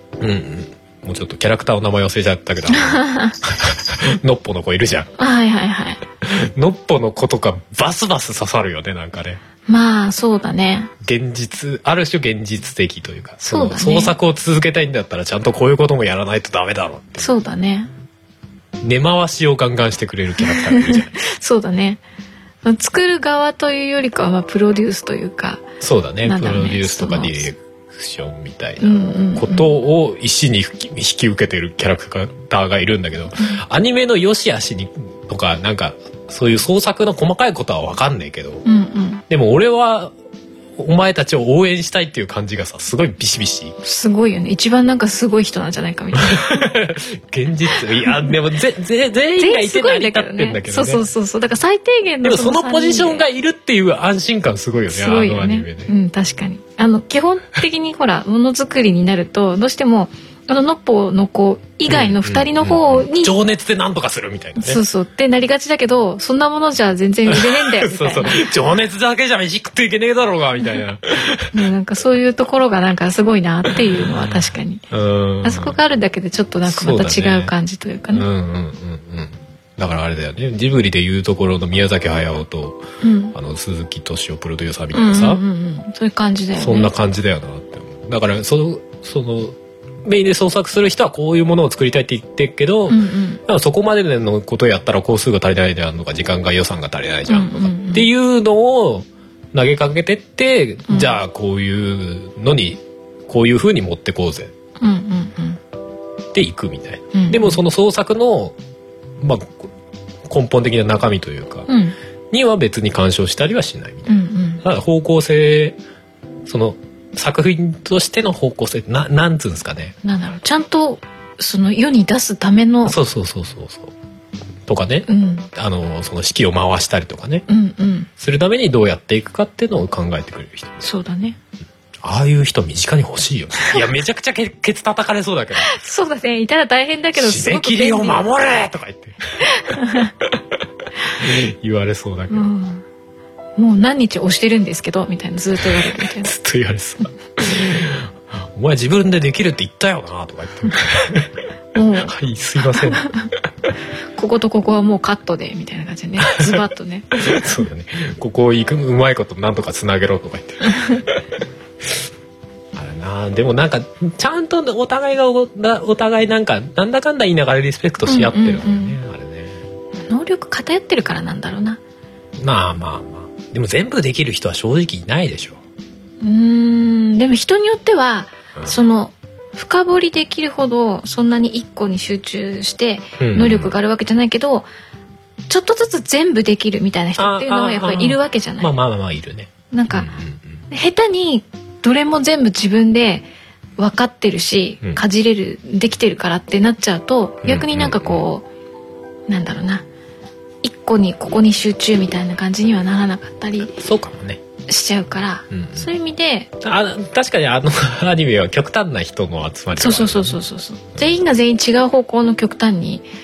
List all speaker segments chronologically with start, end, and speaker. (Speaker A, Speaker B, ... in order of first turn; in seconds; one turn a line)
Speaker A: 0.2-5.1
Speaker B: 2.7-3.3
Speaker B: 5.2-6.0
Speaker A: 6.2-9.4
Speaker B: 9.7-10.9
Speaker A: 11.0-17.3
Speaker B: 13.4-14.1
Speaker B: 17.2-17.9
Speaker A: 18.8-21.1
Speaker B: 20.4-22.0
Speaker B: 22.6-25.6
Speaker A: 25.8-38.6
Speaker B: 26.2-27.5
Speaker B: 28.8-29.7
Speaker B: 38.6-39.2
Speaker A: 39.3-40.1
Speaker A: 40.8-43.8
Speaker B: 43.8-46.7
Speaker A: 46.2-51.0
Speaker B: 47.7-48.4
Speaker B: 49.4-53.2
Speaker A: 52.2-55.9
Speaker B: 54.9-63.3
Speaker A: 61.9-64.8
Speaker B: 64.6-68.5
Speaker A: 67.3-71.6
Speaker B: 71.5-74.8
Speaker A: 73.9-75.8
Speaker B: 75.4-78.3
Speaker A: 76.7-77.5
Speaker A: 78.1-85.4
Speaker B: 83.0-83.3
Speaker B: 84.9-86.9
Speaker A: 86.6-104.5
Speaker B: 92.9-93.4
Speaker B: 97.3-98.1
Speaker B: 100.9-101.2
Speaker B: 104.8-105.6
Speaker A: 106.3-108.5
Speaker B: 107.1-107.6
Speaker A: 109.2-109.7
Speaker A: 110.3-111.7
Speaker B: 111.7-112.0
Speaker A: 112.3-115.8
Speaker B: 114.1-114.6
Speaker A: 116.5-120.0
Speaker B: 120.0-123.0
Speaker A: 122.8-123.9
Speaker A: 124.7-127.5
Speaker B: 125.1-125.5
Speaker B: 127.5-128.1
Speaker A: 128.2-130.8
Speaker B: 130.8-131.4
Speaker A: 132.0-135.8
Speaker B: 135.6-138.3
Speaker A: 137.1-140.4
Speaker B: 139.6-140.1
Speaker A: 141.1-142.5
Speaker B: 142.3-142.8
Speaker B: 143.6-146.3
Speaker A: 145.6-151.3
Speaker B: 151.7-153.3
Speaker A: 152.0-153.1
Speaker B: 154.1-157.1
Speaker A: 156.2-156.6
Speaker A: 157.1-161.2
Speaker B: 160.7-161.0
Speaker A: 162.7-169.6
Speaker B: 168.0-169.0
Speaker B: 170.0-171.8
Speaker A: 172.4-175.6
Speaker B: 176.2-184.7
Speaker A: 183.2-183.7
Speaker B: 185.5-188.7
Speaker A: 187.2-190.6
Speaker B: 189.7-190.1
Speaker B: 190.7-198.4
Speaker A: 197.4-198.2
Speaker B: 199.3-199.8
Speaker B: 200.6-203.7
Speaker A: 203.7-204.4
Speaker B: 204.7-206.5
Speaker A: 205.5-205.9
Speaker A: 206.6-210.4
Speaker B: 209.8-213.1